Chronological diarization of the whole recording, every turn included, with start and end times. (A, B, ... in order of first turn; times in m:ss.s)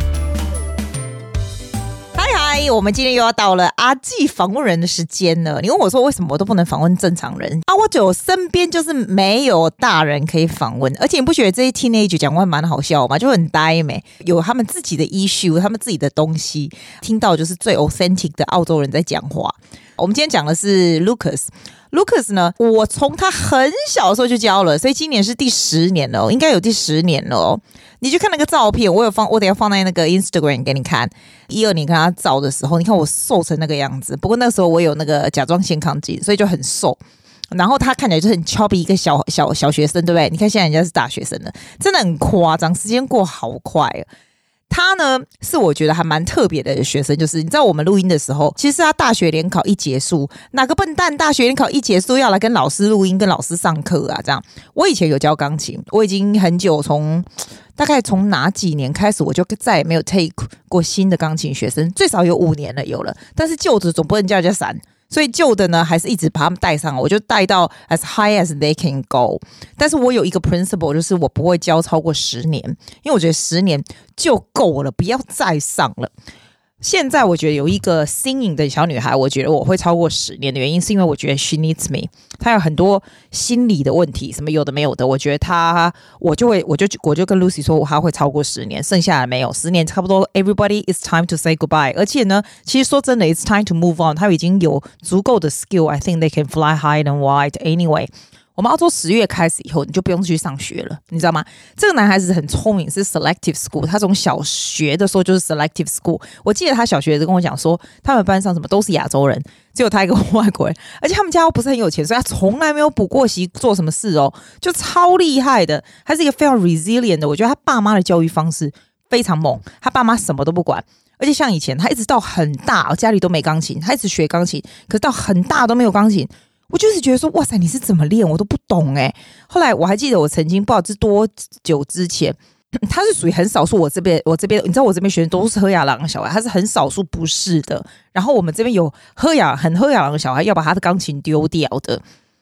0:02.2-0:37.0 A
0:37.5-0:44.1 A
0:44.7-1:16.1 A
1:16.8-2:22.0 A